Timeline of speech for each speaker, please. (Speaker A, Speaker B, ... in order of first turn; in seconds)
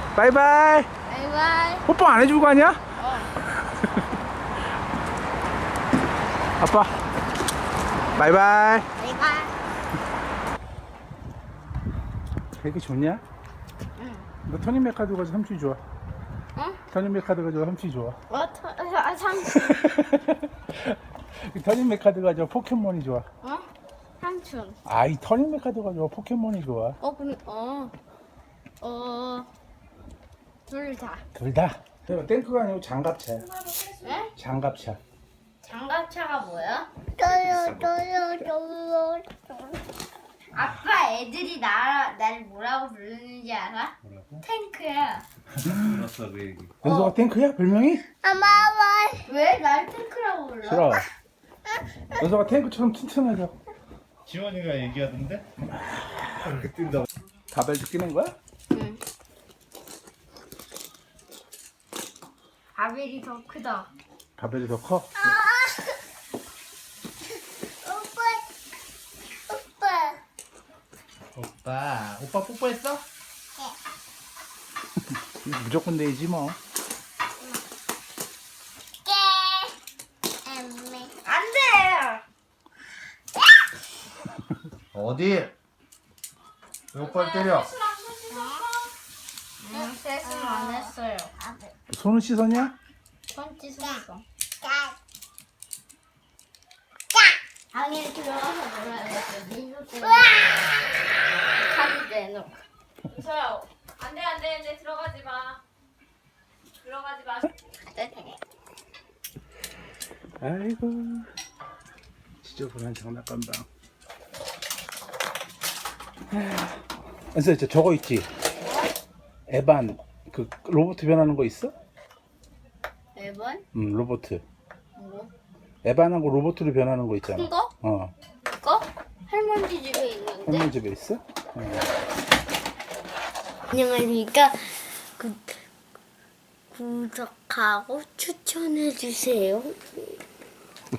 Speaker A: 0.1-0.9, 1.9-2.8, 3.6-4.1, 6.6-6.9, 8.2-8.9, 12.6-13.2, 14.5-15.8, 16.9-18.2, 19.6-23.3, 24.9-27.0, 31.4-33.5, 34.4-35.0, 46.8-48.0, 50.6-51.1, 52.1-53.5, 57.5-58.4, 64.4-65.2, 75.4-76.6, 91.9-92.8, 110.4-111.3, 112.4-113.7, 116.3-116.7, 117.3-118.3, 119.5-121.7, 123.7-124.4, 125.8-128.1, 130.5-131.8
Speaker B: 1.1-1.9, 3.0-3.3, 9.0-9.5, 14.0-14.2, 18.3-19.8, 24.2-24.8, 27.0-27.9, 28.8-29.5, 30.7-31.2, 34.0-34.3, 35.6-36.9, 40.5-45.2, 49.2-50.9, 58.7-59.0, 62.8-63.9, 81.2-82.2, 88.0-88.7, 89.6-91.3, 93.3-94.2, 97.7-100.3, 101.6-102.6, 103.2-103.6, 104.3-104.8, 108.0-108.3, 123.2-123.6, 125.0-125.3, 127.2-127.7, 128.5-130.7, 133.7-135.6, 136.7-140.1
Speaker C: 37.2-39.8, 48.2-49.3, 65.2-66.0, 67.8-68.4, 69.5-70.2, 79.0-79.8, 80.5-81.1, 88.3-88.7, 89.7-91.7, 94.6-95.0, 100.0-100.6
Speaker D: 37.2-37.9, 44.0-44.4, 45.6-46.8, 54.3-55.5, 56.5-57.1, 71.3-73.0, 84.9-85.5, 86.9-87.8
Speaker E: 103.3-105.6, 106.8-107.4